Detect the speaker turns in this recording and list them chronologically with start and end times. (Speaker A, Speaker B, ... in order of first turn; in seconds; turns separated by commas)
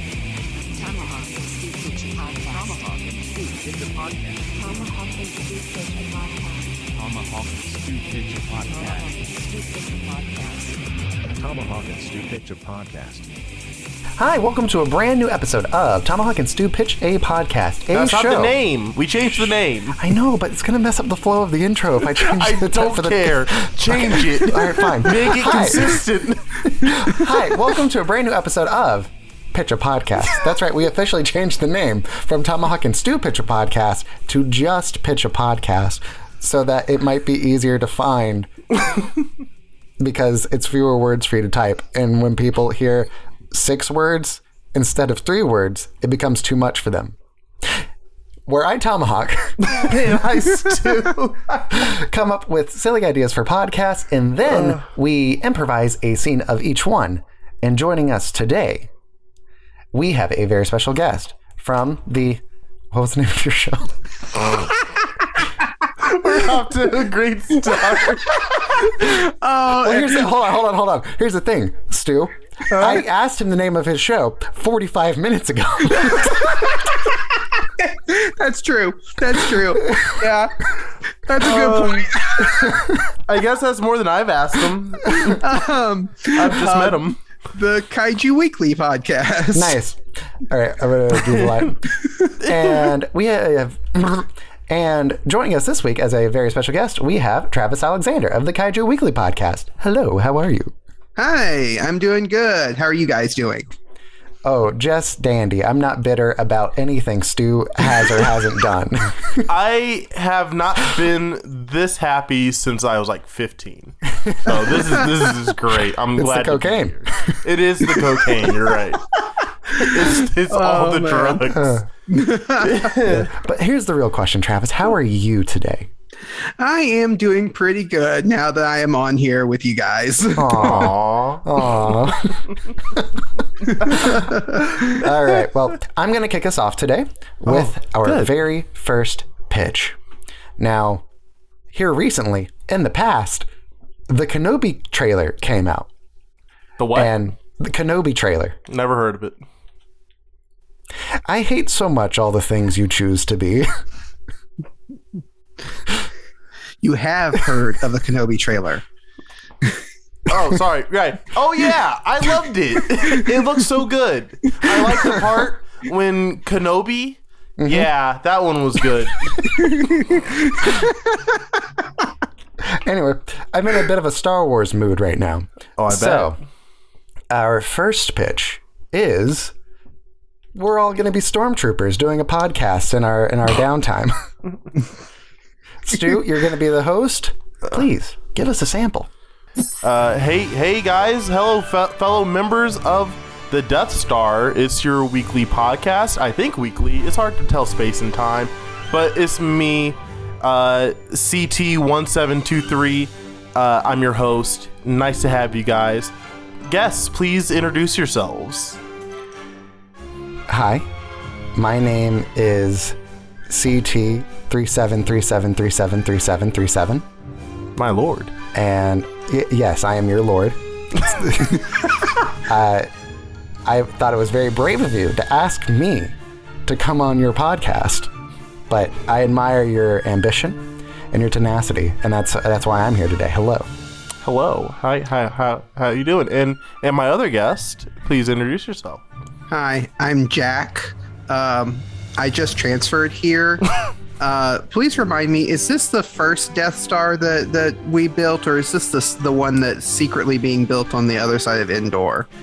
Speaker A: 0.7-6.8, Speaker B: 3.7-4.3, Speaker B: 6.9-9.2, Speaker A: 8.7-10.8, Speaker B: 11.3-13.3, Speaker C: 14.2-18.6, Speaker D: 17.9-20.0, Speaker C: 20.0-26.0, Speaker D: 22.0-27.1, Speaker C: 26.7-38.5, Speaker C: 40.0-47.1, Speaker C: 48.5-49.8, Speaker D: 49.6-51.8, Speaker C: 51.7-58.9, Speaker D: 54.5-54.8, Speaker C: 59.9-63.9, Speaker D: 64.3-64.7, Speaker D: 66.0-68.8, Speaker E: 68.6-70.3, Speaker C: 69.8-76.8, Speaker E: 72.7-73.0, Speaker E: 77.8-82.7, Speaker D: 81.4-82.1, Speaker C: 82.6-83.0, Speaker D: 83.2-85.4, Speaker E: 85.3-89.8, Speaker D: 86.3-87.2, Speaker C: 89.5-91.9, Speaker C: 92.4-100.7, Speaker D: 92.4-92.9, Speaker E: 101.2-103.7, Speaker C: 104.4-109.5, Speaker D: 109.5-119.1, Speaker C: 116.2-117.4, Speaker E: 119.7-121.5, Speaker D: 119.7-121.8, Speaker C: 121.5-121.9, Speaker E: 122.1-122.8, Speaker D: 122.6-123.3, Speaker C: 123.0-125.9, Speaker E: 126.6-130.9, Speaker C: 130.4-133.0, Speaker D: 130.5-131.9, Speaker C: 133.8-140.0, Speaker D: 137.4-138.3, Speaker C: 140.6-141.0, Speaker C: 141.7-143.4, Speaker C: 144.1-145.9, Speaker D: 146.8-147.1, Speaker C: 146.9-148.6, Speaker D: 148.7-149.4, Speaker C: 151.3-153.7, Speaker E: 156.8-158.8, Speaker D: 160.3-169.3, Speaker C: 167.6-167.9, Speaker C: 172.6-176.4, Speaker D: 175.8-176.3, Speaker C: 177.3-179.5, Speaker C: 180.5-184.2, Speaker C: 185.8-189.1, Speaker D: 189.8-206.1, Speaker D: 206.6-208.8, Speaker C: 210.5-210.9, Speaker C: 211.5-212.9, Speaker C: 213.5-217.0, Speaker D: 217.8-218.3, Speaker C: 218.5-221.7, Speaker C: 222.3-222.9, Speaker C: 223.7-226.2, Speaker C: 226.7-228.1, Speaker C: 228.7-230.6, Speaker C: 231.1-233.7, Speaker D: 234.2-239.0, Speaker E: 239.5-243.7, Speaker E: 244.2-252.3